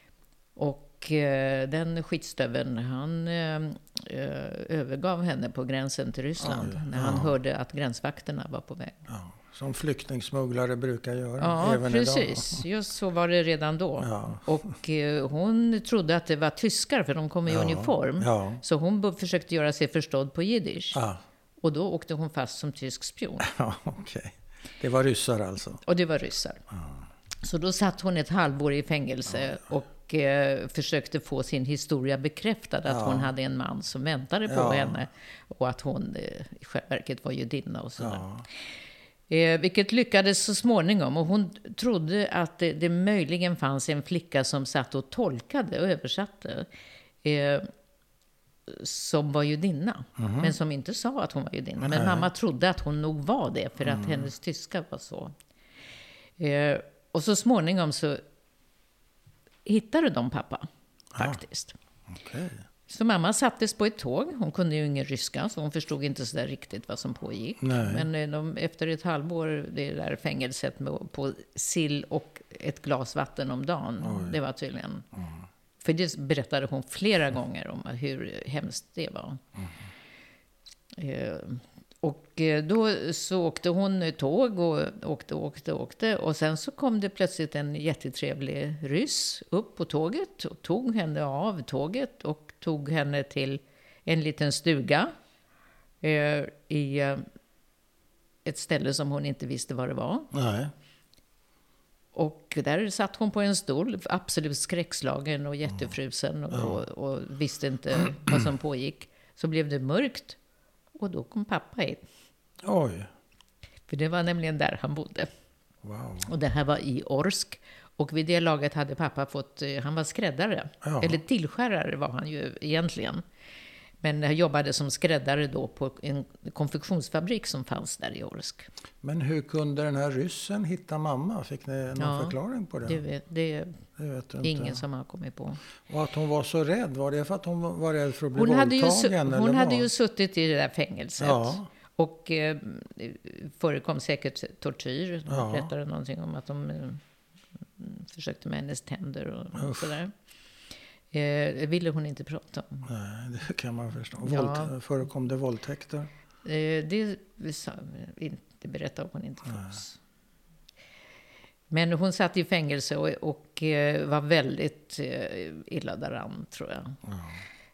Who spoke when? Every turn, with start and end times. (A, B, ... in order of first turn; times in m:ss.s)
0:00.6-0:09.0 A
0:06.4-0:07.3 B
0:09.1-0:12.6 B
0:11.4-0:21.0 A
0:14.0-0:14.5 B
0:17.5-0:18.6 B
0:20.9-0:21.2 B
0:21.6-0:23.5 A
0:23.4-0:25.8 B
0:25.8-0:26.6 A
0:26.7-0:27.0 B
0:27.4-0:38.2 A
0:32.8-0:33.3 B
0:34.5-0:35.0 B
0:38.0-0:38.4 B
0:39.3-0:46.7 A
0:47.2-0:47.7 A
0:48.7-0:55.3 A
0:50.2-0:50.5 B
0:51.8-0:52.3 B
0:53.8-0:54.3 B
0:56.4-0:58.2 A
0:59.6-1:01.7 A
1:01.1-1:01.4 B
1:02.1-1:02.6 B
1:02.9-1:15.1 A
1:07.6-1:08.1 B
1:14.0-1:14.4 B
1:15.1-1:15.4 B
1:15.8-1:19.4 A
1:21.0-1:35.1 A
1:36.0-1:37.2 A
1:38.4-1:40.3 A
1:40.3-1:40.7 B
1:42.1-1:50.4 A
1:46.5-1:46.8 B
1:51.0-1:52.0 A
1:52.6-1:53.1 B
1:53.9-1:55.3 A
1:55.8-1:56.3 B
1:56.2-2:03.2 A
2:00.8-2:01.2 B
2:04.0-2:08.7 A
2:09.0-2:13.0 B
2:12.0-2:13.8 A
2:14.0-2:14.8 B
2:14.4-2:15.6 A
2:15.9-2:19.9 B
2:18.3-2:27.0 A
2:21.2-2:21.7 B
2:25.3-2:25.7 B
2:27.8-2:30.1 A
2:29.5-2:29.9 B
2:31.1-2:32.8 A
2:32.8-2:36.1 B
2:34.2-2:34.7 A
2:36.4-2:40.0 A
2:39.5-2:39.8 B
2:41.7-2:47.0 A
2:47.0-2:47.4 B